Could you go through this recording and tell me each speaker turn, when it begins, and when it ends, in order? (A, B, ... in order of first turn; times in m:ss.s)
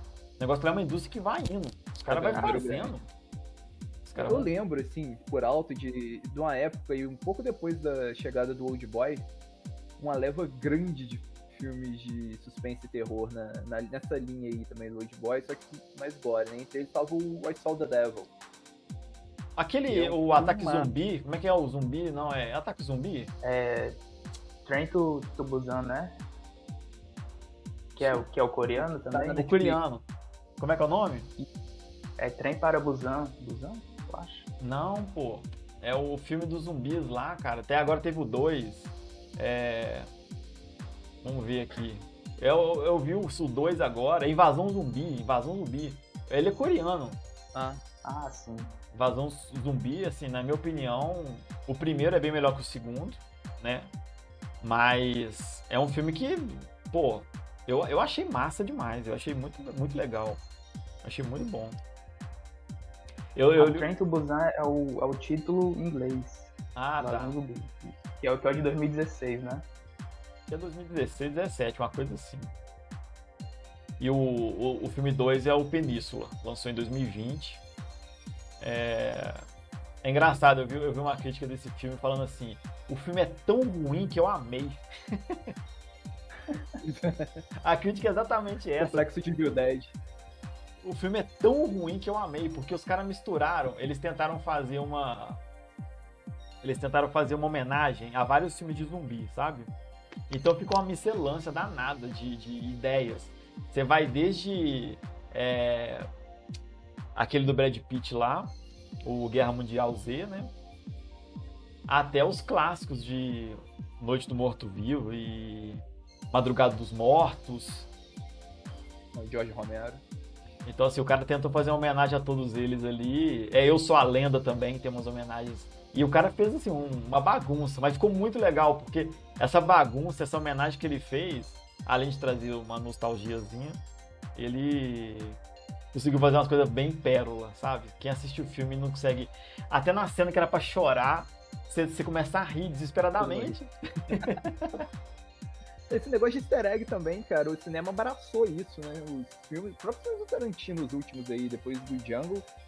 0:00.4-0:03.1 A
0:02.1-0:03.0 B
0:02.2-0:02.7 C
0:04.0-0:04.5 A
0:04.2-0:09.3 B
0:10.0-0:18.3 B
0:19.6-0:23.3 A
0:19.9-0:20.9 B
0:23.4-0:24.0 C
0:24.6-0:26.2 C
0:28.0-0:28.2 A
0:28.0-0:29.8 C
0:29.1-0:30.1 A
0:30.6-0:31.3 A
0:32.2-0:34.5 C
0:34.6-0:40.1 A
0:41.2-0:47.2 A
0:47.5-0:47.8 B
0:48.0-0:48.8 C
0:48.9-0:53.9 A
0:54.6-1:00.4 A
1:01.0-1:01.8 A
1:03.3-1:03.9 A
1:03.6-1:09.7 C
1:06.8-1:07.3 A
1:10.5-1:12.5 A
1:14.0-1:17.6 A
1:18.6-1:19.4 A
1:20.0-1:25.5 A
1:26.8-1:27.4 B
1:27.6-1:29.0 A
1:28.8-1:30.0 B
1:30.8-1:35.4 A
1:36.6-1:39.7 A
1:40.3-1:46.0 A
1:47.1-1:50.5 A
1:51.9-1:57.9 A
1:59.1-2:00.0 B
2:00.6-2:13.8 A
2:14.3-2:15.4 A
2:15.9-2:24.8 A
2:23.2-2:23.6 B
2:25.9-2:32.5 B